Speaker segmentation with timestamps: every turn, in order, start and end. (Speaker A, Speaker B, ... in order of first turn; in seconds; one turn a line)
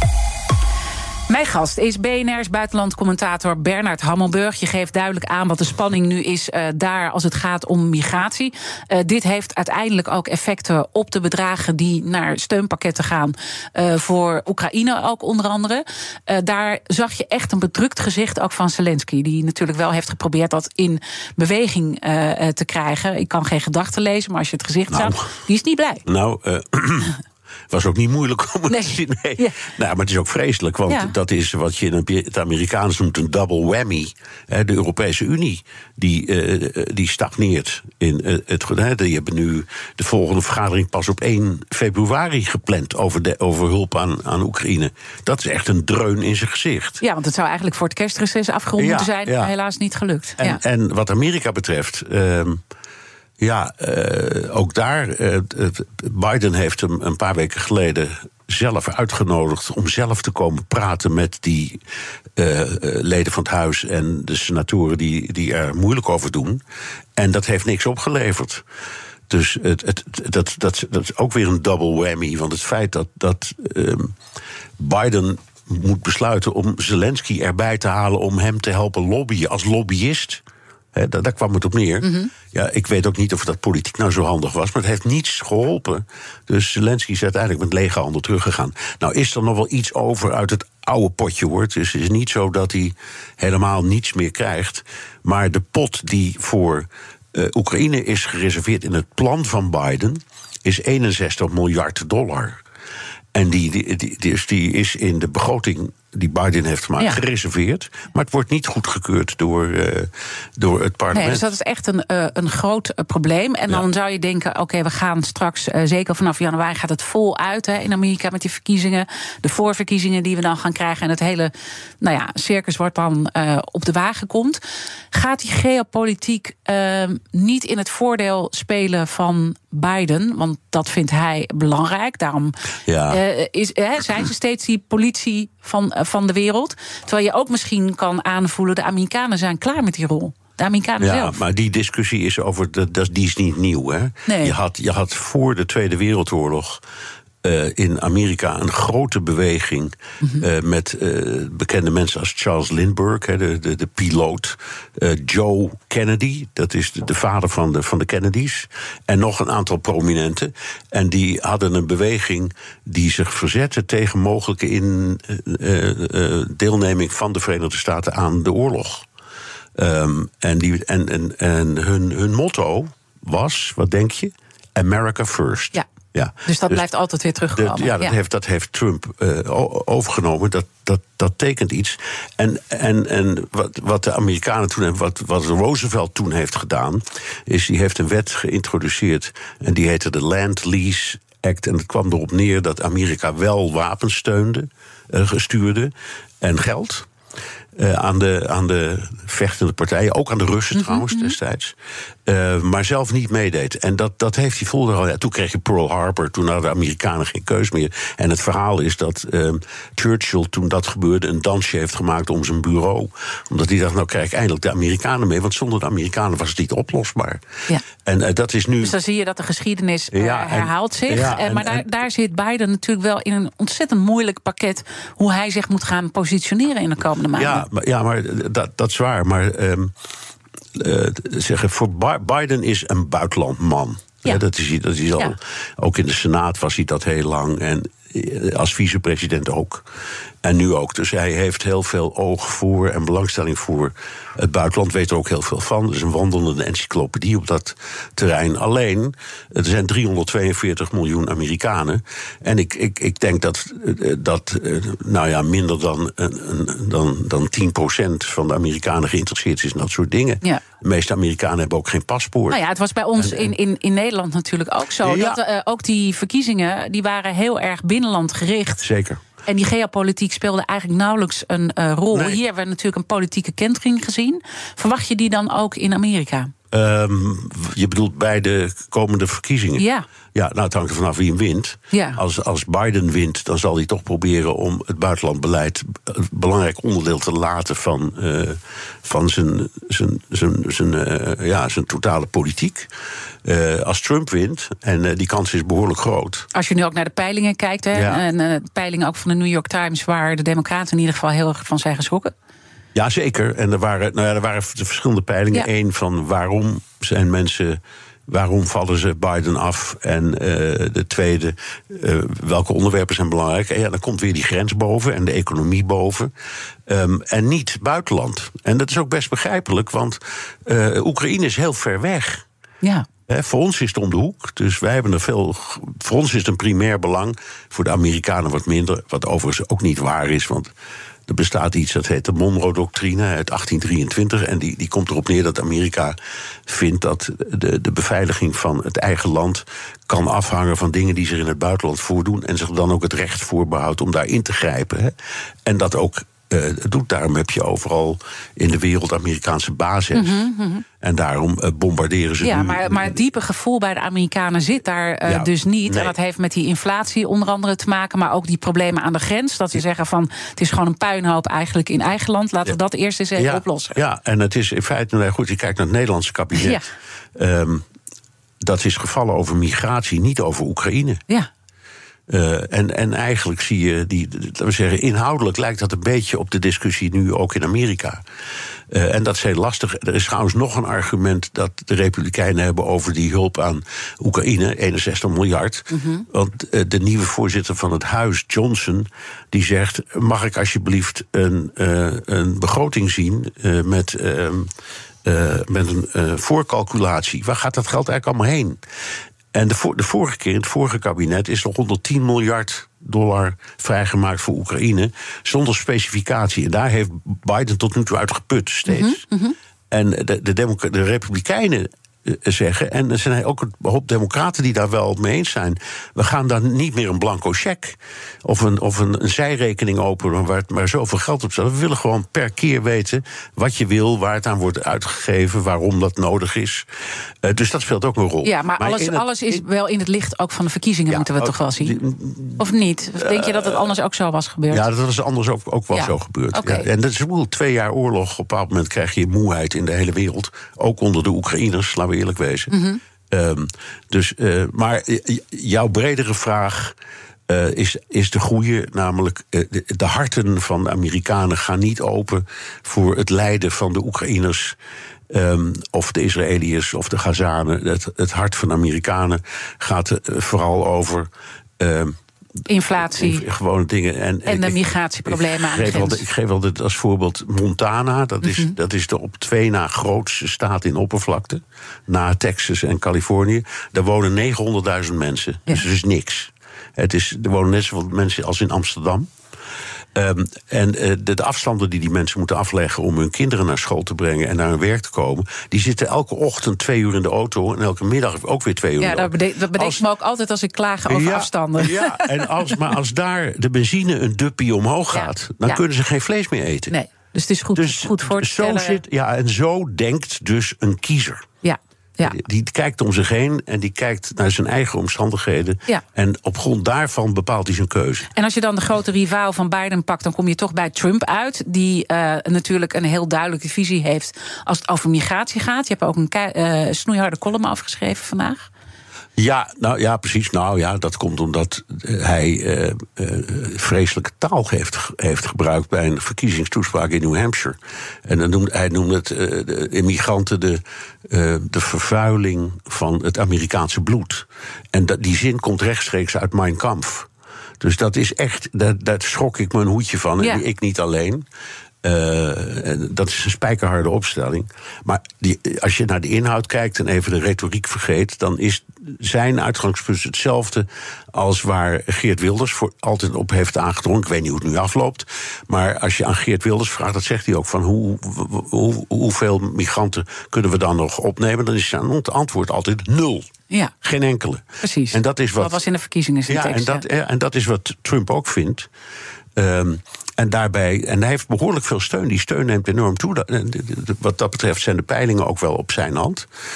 Speaker A: 1.3-26.0
Speaker B: 24.9-25.2
Speaker B: 26.1-27.2
Speaker B: 27.7-47.0
Speaker A: 28.7-29.6
Speaker A: 30.9-31.1
Speaker A: 47.0-50.6
Speaker B: 48.8-49.5
Speaker B: 50.4-52.6
Speaker B: 53.4-61.8
Speaker B: 62.4-66.6
Speaker B: 67.2-68.6
Speaker B: 69.3-74.1
Speaker B: 74.8-80.4
Speaker B: 80.9-102.6
Speaker A: 82.0-82.3
Speaker B: 103.3-111.5
Speaker A: 111.1-124.6
Speaker A: 125.1-132.5
Speaker B: 132.9-133.2
Speaker A: 133.1-141.4
Speaker B: 141.0-146.8
Speaker A: 144.2-144.5
Speaker B: 147.4-169.1
Speaker B: 169.8-176.8
Speaker A: 176.4-178.1
Speaker B: 177.5-197.1
Speaker B: 197.8-217.4
Speaker A: 200.7-201.3
Speaker B: 217.9-219.0
Speaker A: 218.8-227.7
Speaker B: 220.1-221.9
Speaker B: 227.3-229.9
Speaker B: 230.7-239.8
Speaker B: 240.4-262.6
Speaker A: 262.5-268.8
Speaker B: 263.1-263.5
Speaker B: 265.0-265.4
Speaker B: 268.8-269.2
Speaker A: 269.4-276.5
Speaker B: 272.1-272.4
Speaker B: 276.7-292.9
Speaker A: 279.8-280.0
Speaker A: 281.9-282.2
Speaker B: 293.4-296.5
Speaker A: 296.5-302.3
Speaker B: 297.9-298.2
Speaker B: 302.9-316.3
Speaker B: 316.9-322.4
Speaker A: 322.8-323.1
Speaker B: 323.3-330.7
Speaker B: 331.3-350.4
Speaker A: 350.1-350.8
Speaker B: 351.0-353.2
Speaker A: 352.4-364.0
Speaker B: 355.2-356.1
Speaker B: 363.4-366.8
Speaker A: 366.6-366.9
Speaker B: 367.4-367.8
Speaker B: 368.6-371.2
Speaker B: 372.3-378.2
Speaker B: 378.9-394.7
Speaker A: 385.9-386.3
Speaker B: 395.2-398.8
Speaker B: 399.5-409.2
Speaker A: 408.9-409.6
Speaker B: 409.9-426.9
Speaker B: 427.4-429.6
Speaker A: 428.4-431.9
Speaker B: 431.1-433.9
Speaker A: 432.6-434.9
Speaker B: 434.7-442.7
Speaker A: 435.9-436.9
Speaker A: 442.7-443.0
Speaker B: 443.3-446.9
Speaker B: 447.5-454.8
Speaker B: 455.3-462.2
Speaker A: 462.7-463.4
Speaker B: 463.0-479.3
Speaker A: 464.5-466.2
Speaker A: 468.4-468.7
Speaker B: 480.1-490.0
Speaker A: 489.0-492.8
Speaker B: 491.1-496.9
Speaker A: 495.1-495.8
Speaker A: 496.9-499.0
Speaker B: 497.7-501.5
Speaker A: 501.6-502.4
Speaker B: 502.2-508.3
Speaker A: 508.3-518.7
Speaker B: 519.4-537.3
Speaker B: 537.8-541.5
Speaker B: 542.0-563.5
Speaker B: 564.0-565.8
Speaker A: 564.8-567.0
Speaker B: 566.5-568.9
Speaker B: 569.5-576.5